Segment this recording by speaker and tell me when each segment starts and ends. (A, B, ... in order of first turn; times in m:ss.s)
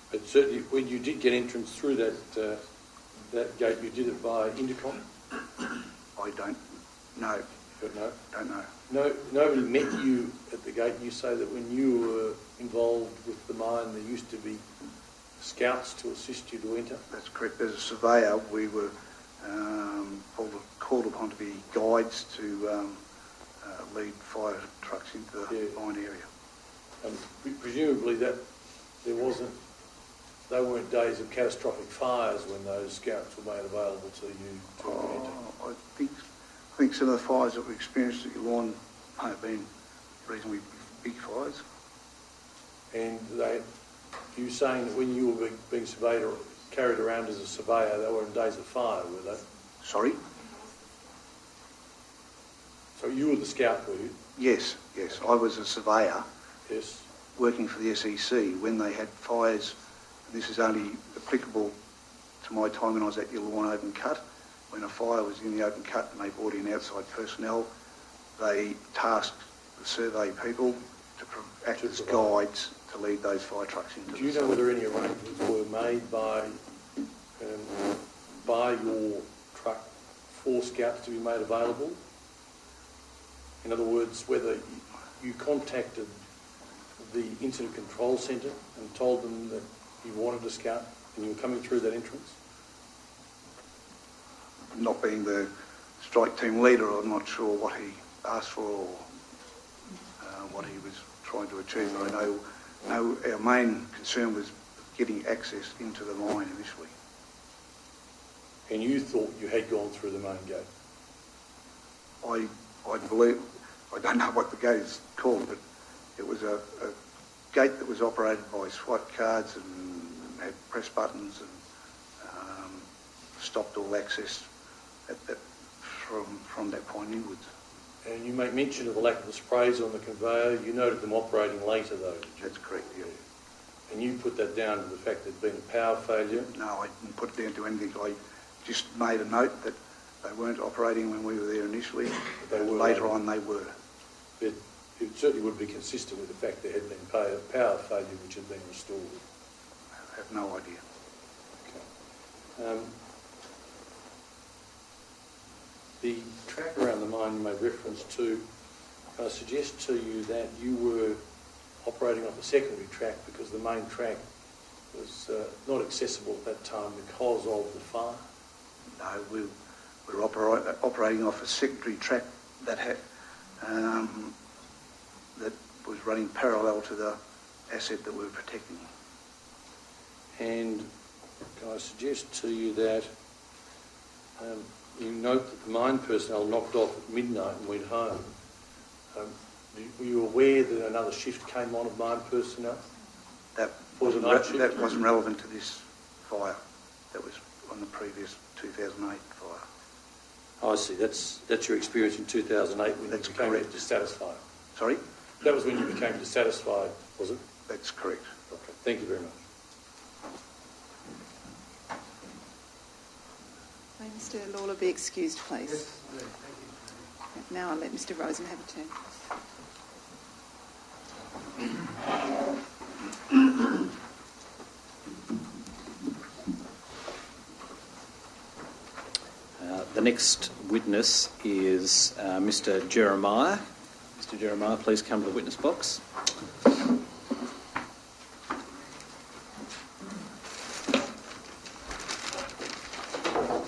0:00.1-0:02.6 A
0:03.3-0:05.0 A
0:06.2-0:06.6 B
0:07.2-0:07.4 B
0:07.8-0:08.2 A
0:08.3-0:08.7 B
0:08.9-0:14.6 A
0:15.4-0:17.0 A
0:17.1-0:23.0 B
0:23.6-0:26.3 B
0:25.5-0:25.8 A
0:27.0-0:28.4 A
0:29.0-0:29.6 A
0:30.5-0:35.4 A
0:34.8-0:36.2 B
0:36.8-0:39.7 B
0:40.2-0:41.6 B
0:42.9-0:43.6 A
0:44.3-0:49.4 A
0:49.8-0:50.2 B
0:53.0-0:54.2 A
0:54.4-0:56.2 B
0:56.7-0:57.1 A
0:57.4-0:59.8 B
1:00.3-1:01.7 B
1:02.4-1:07.7 B
1:08.4-1:14.6 B
1:11.8-1:12.4 A
1:14.1-1:16.6 A
1:17.4-1:17.9 A
1:18.4-1:22.0 A
1:23.6-1:26.1 A
1:27.0-1:32.4 A
1:34.8-1:39.1 B
1:40.2-1:46.9 B
1:48.7-1:50.7 A
1:52.2-1:55.6 B
1:56.2-1:57.0 B
1:57.5-2:01.6 B
2:02.2-2:02.9 B
2:03.4-2:04.5 B
2:05.1-2:07.5 B
2:08.0-2:13.2 A
2:12.4-2:13.1 B
2:13.9-2:16.5 A
2:16.5-2:23.7 B
2:22.4-2:23.2 A
2:24.4-2:29.2 A
2:30.1-2:30.8 B
2:32.6-2:32.9 A
2:36.0-2:38.5 A
2:39.2-2:41.2 A
2:41.8-2:44.2 A
2:44.9-2:48.2 A
2:49.0-2:49.5 B
2:50.1-2:53.0 B
2:53.6-2:54.4 B
2:55.4-2:57.2 B
2:57.7-2:58.9 B
3:00.4-3:00.9 A
3:01.6-3:03.1 A
3:04.4-3:08.3 A
3:09.1-3:12.8 A
3:13.6-3:16.6 B
3:13.9-3:14.7 A
3:17.1-3:19.6 B
3:20.6-3:24.4 A
3:23.1-3:23.7 B
3:24.8-3:25.0 B
3:25.4-3:27.4 A
3:27.7-3:28.3 B
3:28.5-3:29.4 A
3:34.0-3:35.9 C
3:37.4-3:39.0 C
3:49.6-3:53.6 D
3:54.2-3:56.0 D